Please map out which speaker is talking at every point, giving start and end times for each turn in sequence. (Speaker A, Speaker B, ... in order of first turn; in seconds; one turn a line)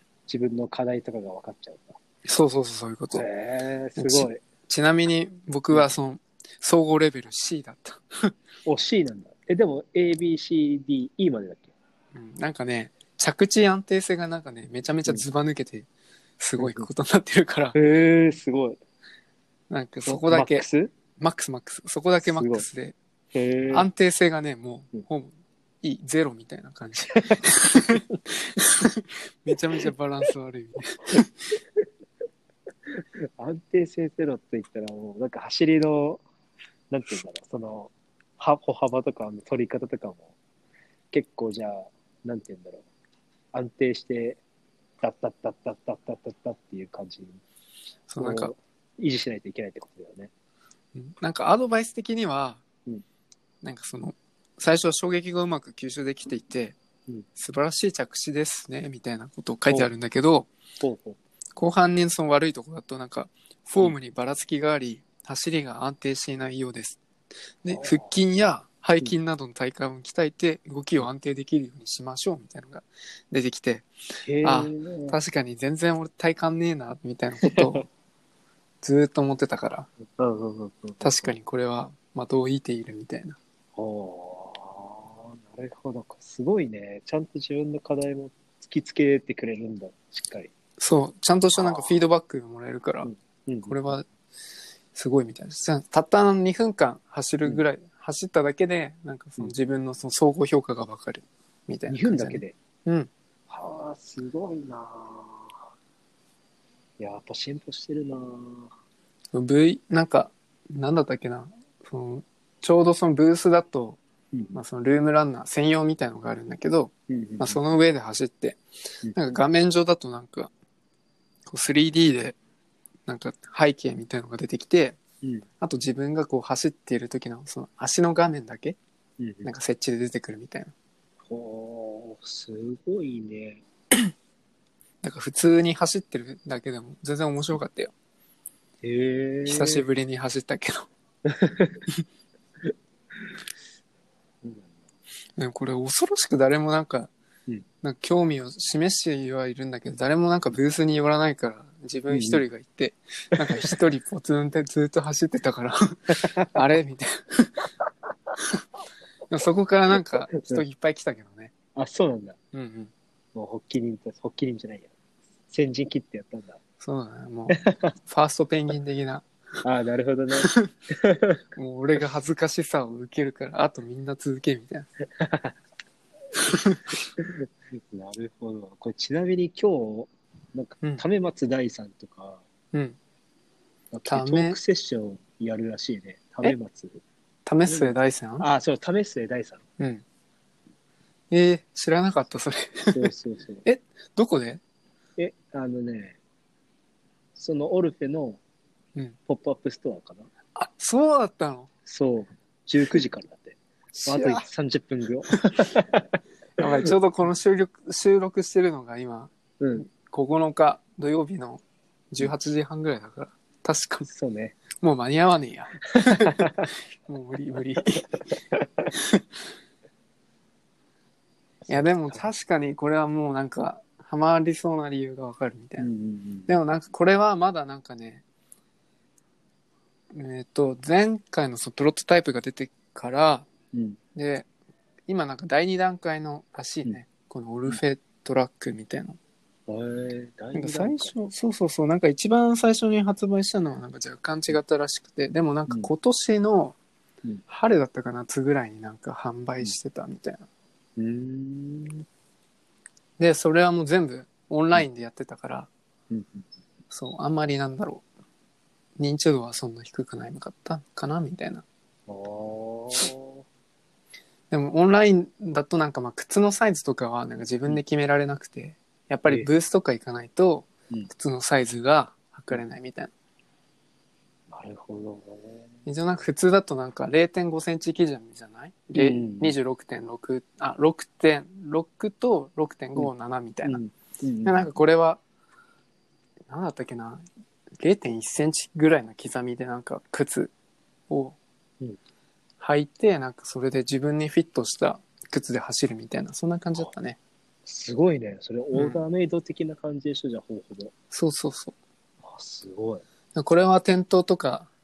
Speaker A: 0.3-2.0
Speaker B: 2.2-3.3
Speaker A: 3.1-4.4
Speaker B: 4.0-8.3
Speaker A: 8.7-11.7
Speaker B: 12.1-15.9
Speaker B: 16.4-17.8
Speaker A: 16.6-16.9
Speaker A: 17.7-18.8
Speaker B: 19.7-20.6
Speaker A: 20.0-20.9
Speaker B: 21.2-23.0
Speaker A: 22.2-22.7
Speaker A: 23.3-23.9
Speaker B: 23.7-31.6
Speaker A: 27.3-28.2
Speaker A: 32.9-36.2
Speaker A: 36.9-40.4
Speaker A: 41.1-42.9
Speaker A: 43.5-44.4
Speaker A: 45.0-47.4
Speaker B: 48.1-48.5
Speaker A: 48.2-50.3
Speaker B: 51.0-52.6
Speaker B: 53.6-56.8
Speaker B: 57.4-60.5
Speaker A: 60.8-61.2
Speaker B: 61.6-67.0
Speaker B: 67.6-73.9
Speaker A: 67.7-68.1
Speaker A: 74.2-75.2
Speaker B: 74.4-77.9
Speaker B: 78.8-79.9
Speaker A: 80.2-81.3
Speaker B: 81.0-83.4
Speaker A: 83.8-90.5
Speaker B: 90.8-93.1
Speaker A: 91.5-92.0
Speaker A: 93.0-93.9
Speaker B: 93.7-94.1
Speaker B: 94.9-103.1
Speaker A: 101.9-102.5
Speaker A: 103.5-105.7
Speaker A: 107.0-108.7
Speaker B: 109.3-114.0
Speaker A: 114.3-114.6
Speaker B: 114.5-118.6
Speaker A: 117.1-117.6
Speaker A: 119.0-119.4
Speaker B: 119.1-120.5
Speaker B: 121.5-122.4
Speaker B: 123.1-125.0
Speaker B: 125.6-128.8
Speaker A: 129.2-129.5
Speaker B: 129.4-130.7
Speaker A: 131.2-133.6
Speaker B: 135.0-137.9
Speaker A: 138.8-139.9
Speaker B: 139.4-140.9
Speaker A: 141.2-141.8
Speaker A: 142.7-143.4
Speaker A: 144.4-144.7
Speaker B: 145.4-147.1
Speaker B: 147.8-157.7
Speaker A: 152.1-152.4
Speaker A: 153.4-153.8
Speaker A: 156.1-156.6
Speaker B: 159.3-161.5
Speaker A: 159.9-160.6
Speaker A: 161.8-162.4
Speaker B: 162.5-162.9
Speaker A: 163.3-164.9
Speaker A: 165.5-166.6
Speaker B: 166.8-169.3
Speaker A: 167.5-167.9
Speaker A: 169.6-171.4
Speaker B: 170.4-170.7
Speaker B: 171.6-174.9
Speaker A: 175.2-175.6
Speaker B: 176.4-177.0
Speaker A: 177.2-182.4
Speaker A: 183.9-187.0
Speaker B: 184.1-184.6
Speaker B: 187.5-188.5
Speaker A: 187.7-189.6
Speaker B: 191.3-193.1
Speaker A: 192.9-193.6
Speaker B: 193.7-194.6
Speaker A: 195.2-196.2
Speaker A: 197.3-198.4
Speaker A: 199.3-200.3
Speaker B: 200.6-201.7
Speaker A: 201.9-206.9
Speaker B: 203.9-204.5
Speaker B: 205.3-205.6
Speaker B: 206.6-214.1
Speaker A: 209.6-209.9
Speaker A: 214.1-214.6
Speaker B: 214.8-218.3
Speaker A: 216.0-216.7
Speaker A: 218.0-218.9
Speaker B: 218.9-219.2
Speaker A: 221.7-222.2
Speaker B: 221.7-225.9
Speaker A: 225.8-226.6
Speaker B: 226.5-228.2
Speaker B: 230.1-233.5
Speaker A: 233.7-234.0
Speaker B: 234.2-234.5
Speaker B: 235.1-239.2
Speaker A: 239.7-241.2
Speaker B: 240.6-246.8
Speaker B: 247.5-250.4
Speaker A: 251.0-252.1
Speaker B: 253.2-255.7
Speaker A: 256.1-256.5
Speaker B: 256.9-258.1
Speaker B: 259.0-261.6
Speaker A: 262.1-263.4
Speaker B: 264.5-273.1
Speaker A: 274.5-275.7
Speaker B: 275.9-283.8
Speaker A: 278.9-279.6
Speaker A: 283.6-284.7
Speaker B: 284.4-285.2
Speaker B: 286.5-287.3
Speaker B: 287.8-290.5
Speaker B: 291.1-291.4
Speaker B: 292.6-297.2
Speaker A: 297.6-300.9
Speaker B: 298.7-299.0
Speaker B: 301.1-301.8
Speaker A: 302.2-303.0
Speaker B: 303.4-304.7